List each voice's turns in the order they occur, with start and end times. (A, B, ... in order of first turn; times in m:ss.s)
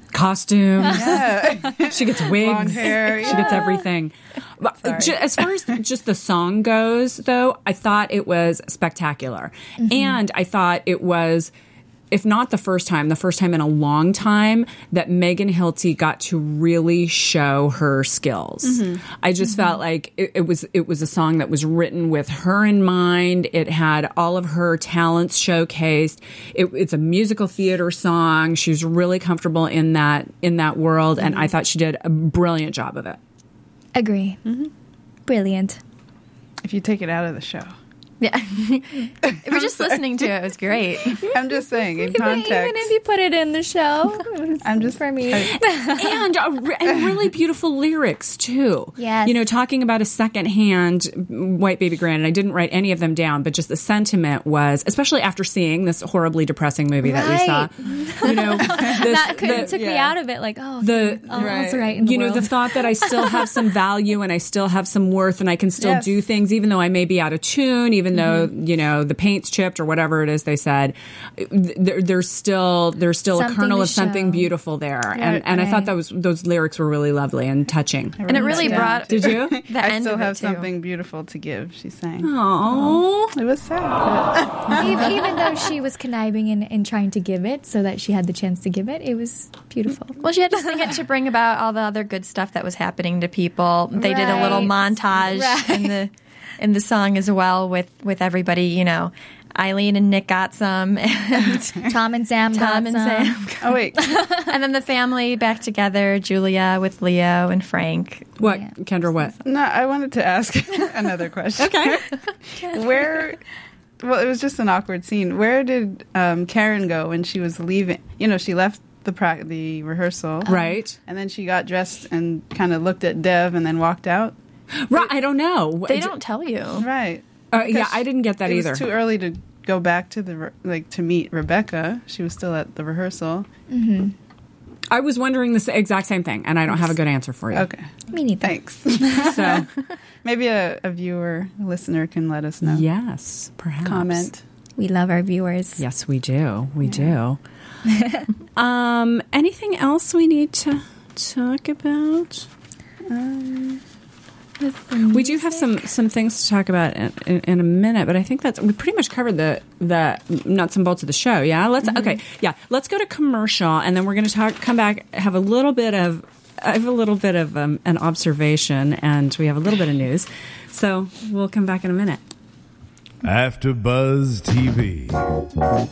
0:00.1-0:11.5 A
0:00.9-0:03.8 B
0:04.8-0:05.5 B
0:09.8-0:10.2 C
0:12.1-0:33.2 A
0:18.6-0:19.0 B
0:33.9-0:34.4 C
0:34.4-0:34.7 B
0:35.3-0:35.8 C
0:36.6-0:37.7 B
0:38.2-0:41.2 D
0:39.3-0:40.0 B
0:41.1-0:42.9 B
0:42.0-0:46.2 C
0:44.6-0:45.6 B
0:45.6-0:59.7 A
0:49.0-0:49.4 C
0:57.0-1:03.5 C
0:58.7-1:00.2 B
1:00.8-1:19.6 A
1:01.3-1:02.0 B
1:05.8-1:06.2 B
1:13.3-1:14.5 C
1:15.2-1:15.9 C
1:18.2-1:25.2 B
1:18.3-1:20.7 D
1:22.2-1:23.4 A
1:24.7-1:30.2 C
1:30.2-1:41.9 D
1:33.9-1:36.0 C
1:34.2-1:34.6 B
1:41.8-1:43.4 C
1:42.5-1:48.4 D
1:43.6-1:44.1 B
1:44.0-1:44.5 C
1:48.4-1:49.4 A
1:49.4-1:52.1 B
1:51.6-1:52.0 A
1:52.6-1:53.4 B
1:54.0-2:00.5 B
2:00.5-2:01.0 A
2:01.0-2:04.4 B
2:04.8-2:06.1 A
2:05.9-2:06.9 D
2:06.8-2:13.5 B
2:07.5-2:08.9 A
2:13.7-2:14.1 C
2:14.9-2:17.7 A
2:17.5-2:17.9 B
2:18.1-2:19.4 C
2:18.4-2:19.7 B
2:19.1-2:19.7 A
2:20.2-2:22.8 B
2:22.6-2:24.3 A
2:23.8-2:24.4 B
2:24.8-2:25.8 C
2:25.8-2:27.4 A
2:26.9-2:27.1 B
2:27.9-2:28.2 C
2:28.6-2:32.5 A
2:33.1-2:33.8 B
2:34.6-2:35.7 C
2:35.1-2:52.2 A
2:53.2-2:55.2 E